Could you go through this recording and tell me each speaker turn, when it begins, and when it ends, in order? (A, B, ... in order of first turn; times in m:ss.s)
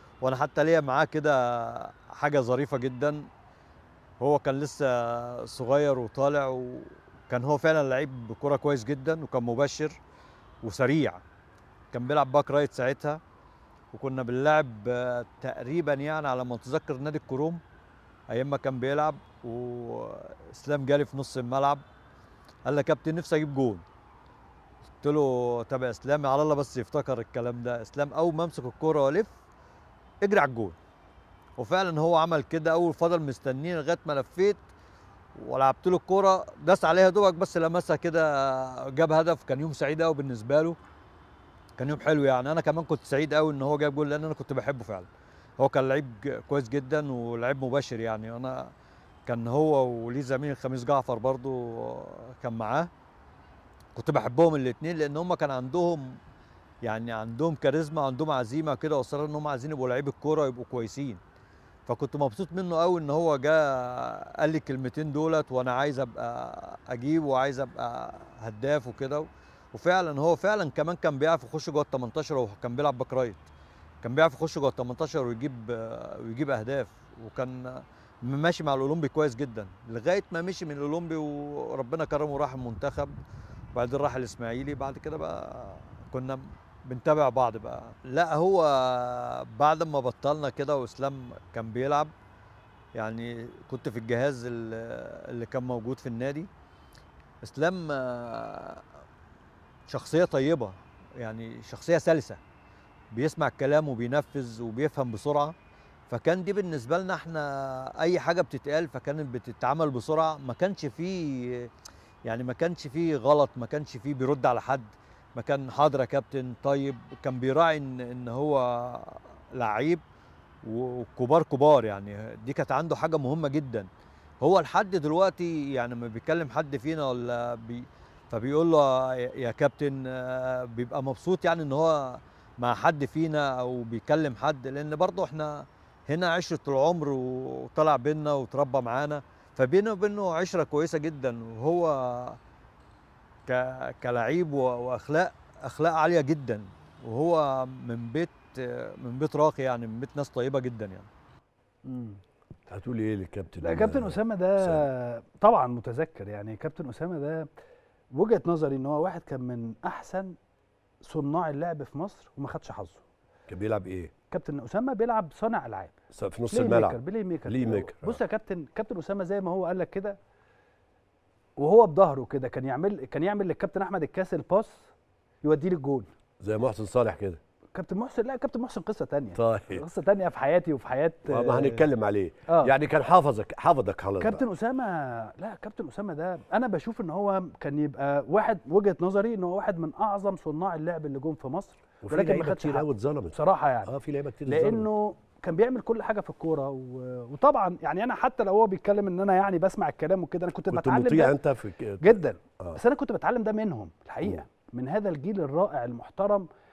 0:00.2-0:03.2 A
0:04.2-0:10.0 A
0:10.6-0:11.2 A
0:11.9-0:13.2 A
0:13.9-0:17.6 A
0:18.3-0:21.8 A
0:22.6-0:23.8 A
0:25.0-0:29.3 A
0:30.2-0:30.8 A
0:31.6-0:34.6 A
0:35.4-0:40.8 A
0:41.8-0:45.1 A
0:45.6-0:48.7 A
0:49.2-0:52.9 A
0:53.9-0:56.1 A
0:56.8-1:01.2 A
1:01.9-1:13.4 A
1:14.0-1:23.1 A
1:23.7-1:32.1 A
1:33.0-1:36.5 A
1:37.4-1:38.8 A
1:39.9-1:42.4 A
1:43.1-1:45.5 A
1:46.1-1:51.7 A
1:52.2-2:00.0 A
2:00.6-2:03.9 A
2:04.4-2:22.4 A
2:23.5-2:31.1 A
2:32.7-2:34.8 B
2:33.6-2:37.4 C
2:38.1-2:40.2 C
2:41.0-2:43.0 C
2:43.5-2:44.1 B
2:44.3-2:45.9 C
2:46.1-2:48.2 B
2:46.5-2:50.1 C
2:51.6-2:54.9 C
2:55.4-2:56.0 C
2:56.4-2:57.4 B
2:57.7-3:01.8 C
2:59.3-2:59.8 B
3:01.3-3:04.4 B
3:04.2-3:13.8 C
3:12.0-3:13.3 B
3:13.8-3:14.9 B
3:14.4-3:21.3 C
3:20.7-3:22.8 B
3:22.0-3:26.4 C